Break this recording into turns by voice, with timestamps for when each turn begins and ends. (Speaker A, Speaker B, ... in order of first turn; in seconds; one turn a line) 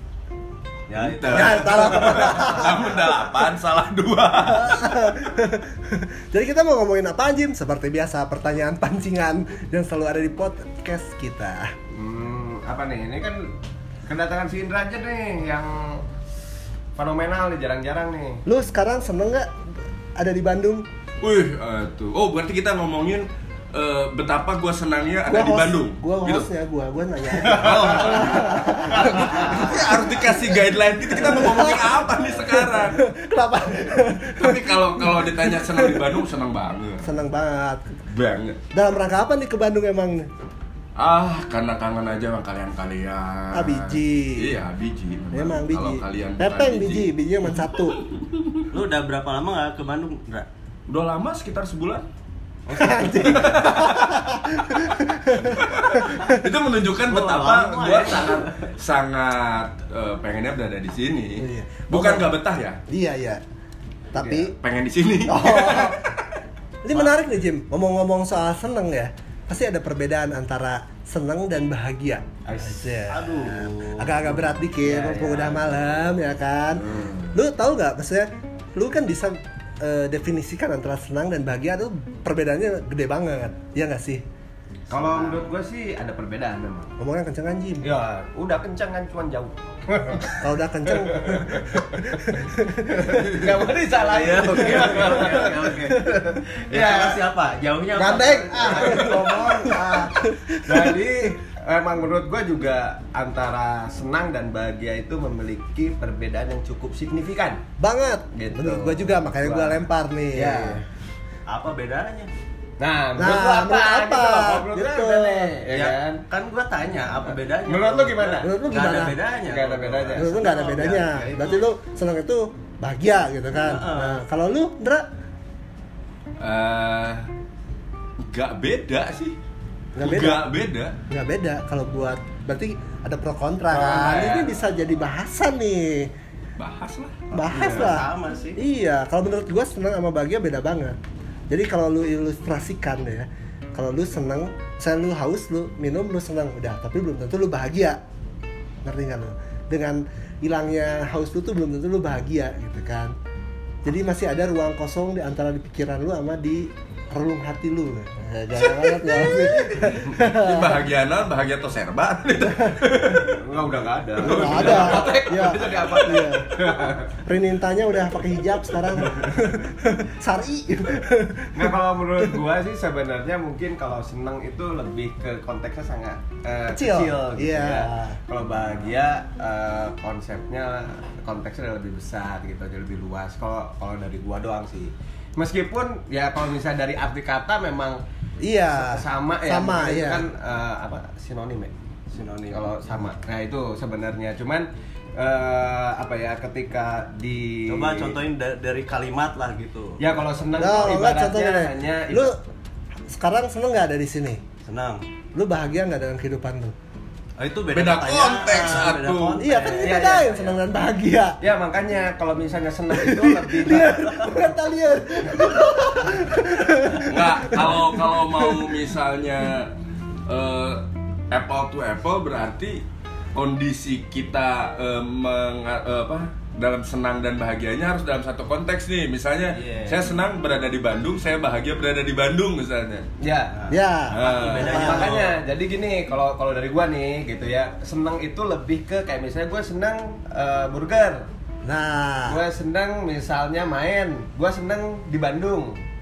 Speaker A: 0.9-2.1
Speaker B: 0.9-5.1
Speaker C: 1.3-3.0
Speaker C: 4.5-11.7
Speaker D: 11.9-13.5
Speaker D: 14.1-16.0
Speaker D: 16.9-18.4
Speaker C: 18.4-20.9
Speaker B: 21.2-26.5
Speaker C: 25.3-30.2
Speaker D: 27.4-29.8
Speaker B: 27.5-33.0
Speaker C: 31.1-36.1
Speaker B: 34.3-37.1
Speaker C: 37.0-37.8
Speaker B: 38.1-38.6
Speaker C: 38.7-40.3
Speaker B: 41.0-47.1
Speaker C: 43.5-44.6
Speaker C: 45.3-48.0
Speaker B: 47.7-48.6
Speaker A: 48.7-50.5
Speaker B: 50.9-52.0
Speaker A: 52.7-53.6
Speaker C: 52.7-56.3
Speaker B: 53.1-62.8
Speaker A: 57.1-58.6
Speaker C: 61.4-62.3
Speaker C: 62.9-63.4
Speaker C: 64.1-64.5
Speaker D: 64.1-64.5
Speaker B: 64.6-66.4
Speaker C: 65.3-66.0
Speaker C: 66.8-84.2
Speaker D: 72.4-73.1
Speaker A: 73.0-74.6
Speaker D: 74.8-76.0
Speaker D: 84.9-86.9
Speaker A: 84.9-85.4
Speaker C: 87.0-87.9
Speaker D: 87.8-92.3
Speaker C: 90.4-93.3
Speaker D: 92.9-97.2
Speaker B: 93.2-93.5
Speaker A: 93.9-99.3
Speaker C: 97.9-100.9
Speaker D: 98.5-107.6
Speaker C: 107.8-110.8
Speaker D: 108.3-109.8
Speaker D: 110.3-110.8
Speaker A: 111.5-112.3
Speaker D: 112.8-116.2
Speaker C: 113.2-115.6
Speaker A: 115.7-121.3
Speaker D: 117.3-118.5
Speaker C: 118.4-119.2
Speaker D: 119.4-121.6
Speaker C: 120.2-125.0
Speaker A: 123.5-124.2
Speaker B: 126.4-127.3
Speaker B: 128.2-129.3
Speaker C: 129.9-130.4
Speaker B: 130.0-130.9
Speaker C: 131.1-136.1
Speaker D: 133.8-134.4
Speaker B: 133.9-134.4
Speaker B: 136.6-137.7
Speaker C: 137.3-141.0
Speaker A: 137.4-138.6
Speaker C: 141.5-148.0
Speaker C: 148.8-153.1
Speaker C: 153.8-160.8
Speaker B: 160.1-163.4
Speaker C: 162.5-162.8
Speaker D: 163.3-167.1
Speaker B: 164.2-165.3
Speaker C: 164.2-172.3
Speaker D: 169.0-169.3
Speaker D: 171.5-188.0
Speaker C: 176.7-178.2
Speaker C: 188.4-190.2
Speaker D: 188.7-191.7
Speaker A: 192.1-192.7
Speaker D: 192.5-198.1
Speaker A: 197.7-200.0
Speaker D: 200.0-202.4
Speaker C: 200.6-202.4
Speaker C: 203.1-204.4
Speaker A: 204.6-205.0
Speaker C: 205.3-206.7
Speaker A: 207.4-210.1
Speaker B: 207.7-209.4
Speaker C: 209.4-211.4
Speaker D: 209.8-210.6
Speaker D: 211.4-214.5
Speaker C: 212.9-218.7
Speaker B: 217.0-219.7
Speaker B: 220.3-222.8
Speaker B: 223.3-233.1
Speaker A: 229.5-230.0
Speaker D: 233.2-233.7
Speaker C: 233.7-235.2
Speaker A: 233.7-235.3
Speaker B: 234.1-235.0
Speaker D: 234.3-241.2
Speaker C: 241.7-242.4
Speaker D: 242.3-245.8